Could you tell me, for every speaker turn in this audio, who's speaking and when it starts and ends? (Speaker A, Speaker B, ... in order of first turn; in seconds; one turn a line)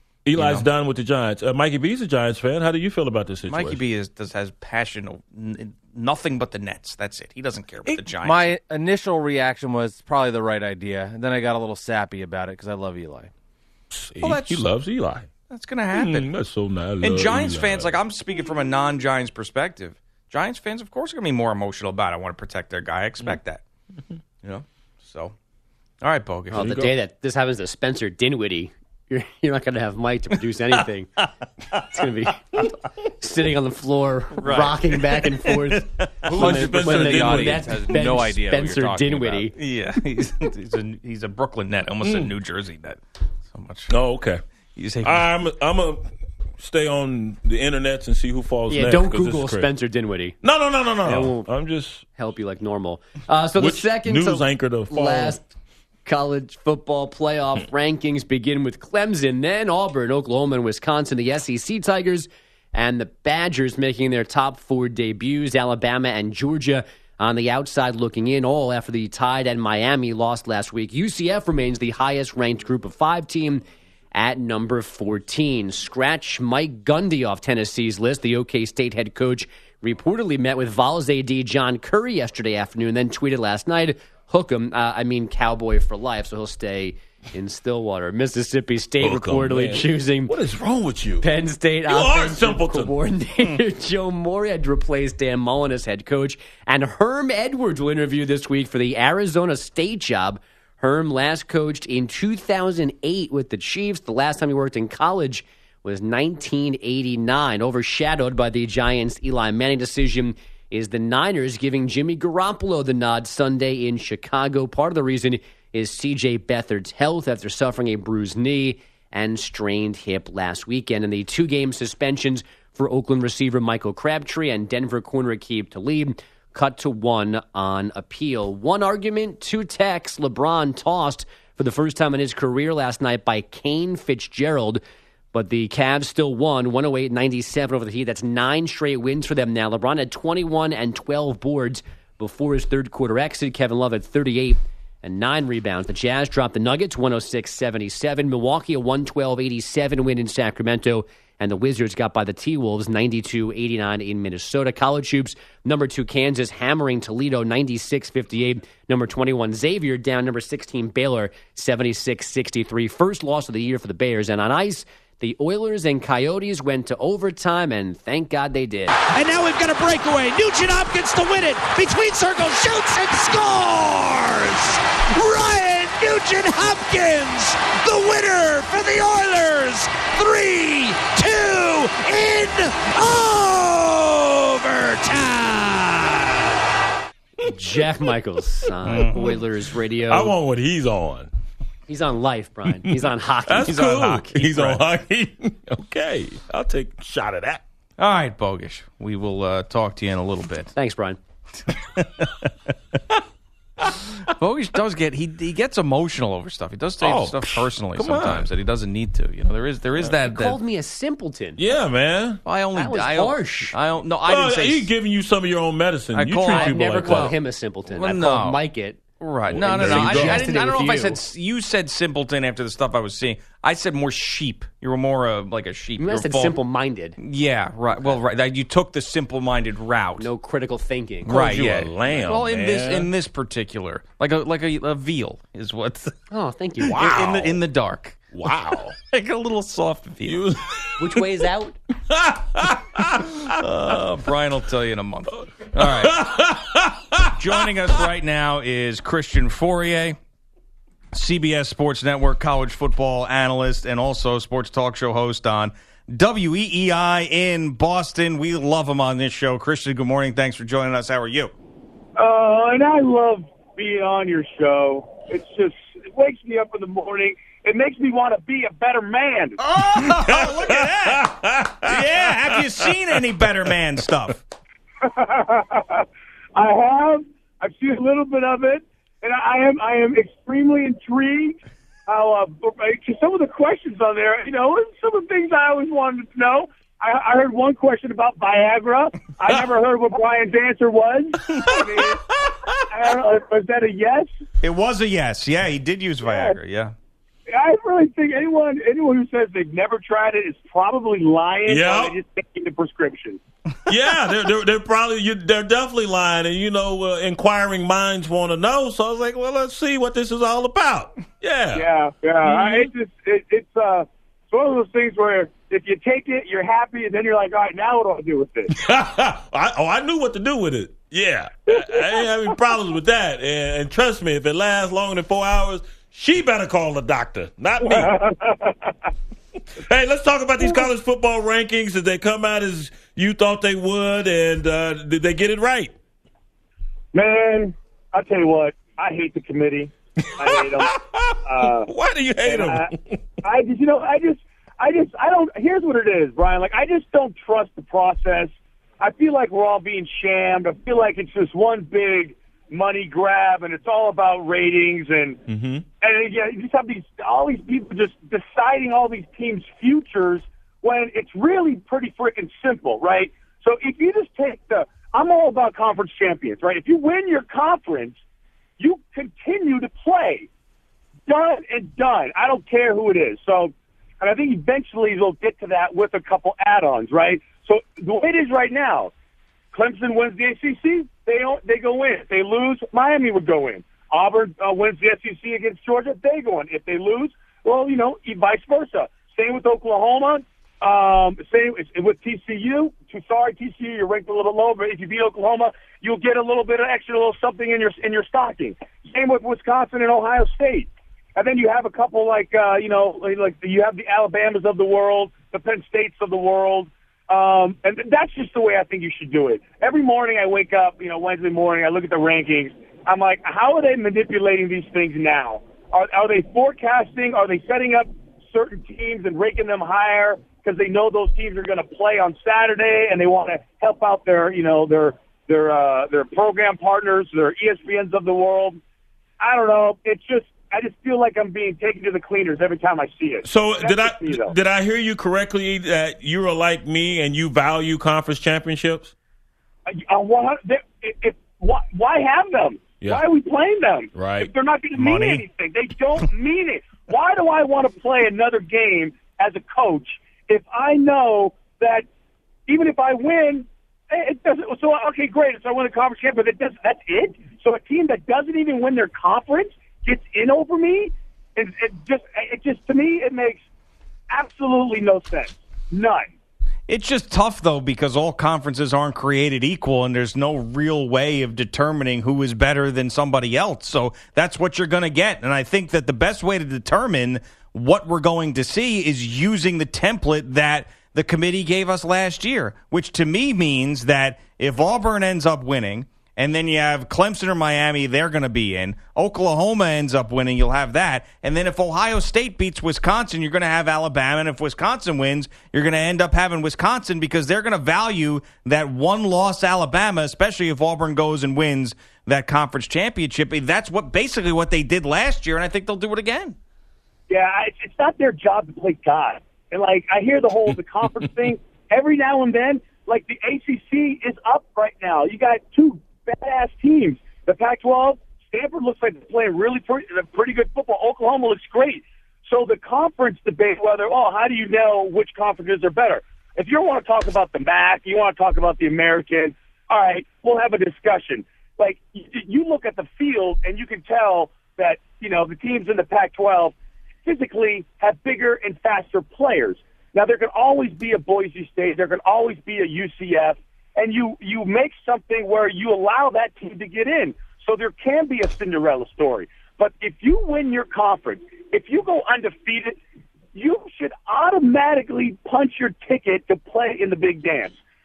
Speaker A: 0.3-3.8
Speaker B: 0.4-0.7
Speaker B: 3.5-8.6
Speaker C: 8.2-13.3
Speaker A: 13.9-15.3
Speaker B: 14.2-14.7
Speaker B: 15.5-16.3
Speaker A: 15.9-17.9
Speaker B: 17.0-23.6
Speaker B: 24.4-25.4
Speaker B: 26.0-26.9
Speaker D: 26.5-31.2
Speaker A: 26.6-26.9
Speaker D: 31.8-39.5
Speaker B: 34.4-36.6
Speaker C: 36.2-39.5
Speaker A: 36.3-37.8
Speaker B: 39.5-43.9
Speaker A: 42.0-42.3
Speaker A: 43.9-44.4
Speaker B: 44.8-45.3
Speaker A: 45.0-46.0
Speaker A: 46.6-49.7
Speaker D: 48.7-50.4
Speaker A: 50.4-52.0
Speaker D: 51.0-51.5
Speaker D: 52.2-55.5
Speaker A: 53.6-55.4
Speaker D: 56.1-73.6
Speaker D: 74.1-90.3
Speaker A: 89.0-91.3
Speaker D: 91.2-134.8
Speaker A: 91.9-92.9
Speaker D: 135.3-168.9
Speaker E: 169.1-186.4
Speaker D: 187.4-190.3
Speaker B: 188.8-189.4
Speaker A: 190.1-191.3
Speaker D: 191.9-193.8
Speaker A: 193.5-197.6
Speaker B: 193.7-194.8
Speaker B: 198.0-200.7
Speaker D: 200.8-201.2
Speaker B: 201.9-202.5
Speaker B: 204.3-210.6
Speaker A: 207.0-208.5
Speaker D: 210.2-211.6
Speaker A: 211.6-212.4
Speaker B: 212.4-214.9
Speaker D: 212.8-213.8
Speaker A: 214.3-217.4
Speaker B: 216.1-217.3
Speaker D: 216.5-219.0
Speaker B: 217.9-218.6
Speaker B: 219.2-226.6
Speaker A: 219.5-220.5
Speaker D: 219.6-221.2
Speaker D: 226.0-227.2
Speaker B: 227.2-230.3
Speaker D: 230.2-231.8
Speaker B: 231.2-236.2
Speaker A: 231.3-233.1
Speaker D: 236.3-237.0
Speaker B: 236.8-238.2
Speaker A: 236.9-237.5
Speaker A: 238.3-238.9
Speaker B: 239.1-240.4
Speaker A: 240.3-241.2
Speaker D: 241.0-241.8
Speaker A: 242.1-243.6
Speaker B: 243.5-246.3
Speaker A: 245.8-247.7
Speaker B: 247.2-250.2
Speaker B: 251.1-261.5
Speaker F: 262.2-269.6
Speaker B: 269.6-274.4
Speaker A: 269.9-273.2
Speaker F: 275.0-292.3
Speaker A: 291.6-292.7
Speaker F: 292.9-294.3
Speaker B: 294.6-296.9
Speaker F: 296.2-296.6
Speaker F: 297.5-303.4
Speaker A: 301.7-302.1
Speaker A: 303.9-311.9
Speaker F: 311.7-318.7
Speaker A: 312.4-312.9
Speaker A: 318.7-328.2
Speaker F: 321.7-322.2
Speaker F: 327.8-328.8
Speaker A: 329.8-335.9
Speaker F: 337.1-341.9
Speaker A: 340.3-343.2
Speaker F: 342.4-342.9
Speaker F: 343.4-355.4
Speaker A: 355.5-355.9
Speaker F: 356.0-368.2
Speaker F: 368.8-370.5
Speaker F: 371.3-379.1
Speaker F: 379.7-428.8
Speaker F: 429.4-434.6
Speaker A: 433.4-439.1
Speaker F: 439.9-452.1
Speaker A: 444.1-444.5
Speaker B: 445.0-445.4
Speaker F: 452.7-463.6
Speaker F: 464.3-466.3
Speaker B: 466.9-506.6
Speaker F: 507.3-536.7
Speaker F: 537.2-553.0
Speaker F: 553.5-557.8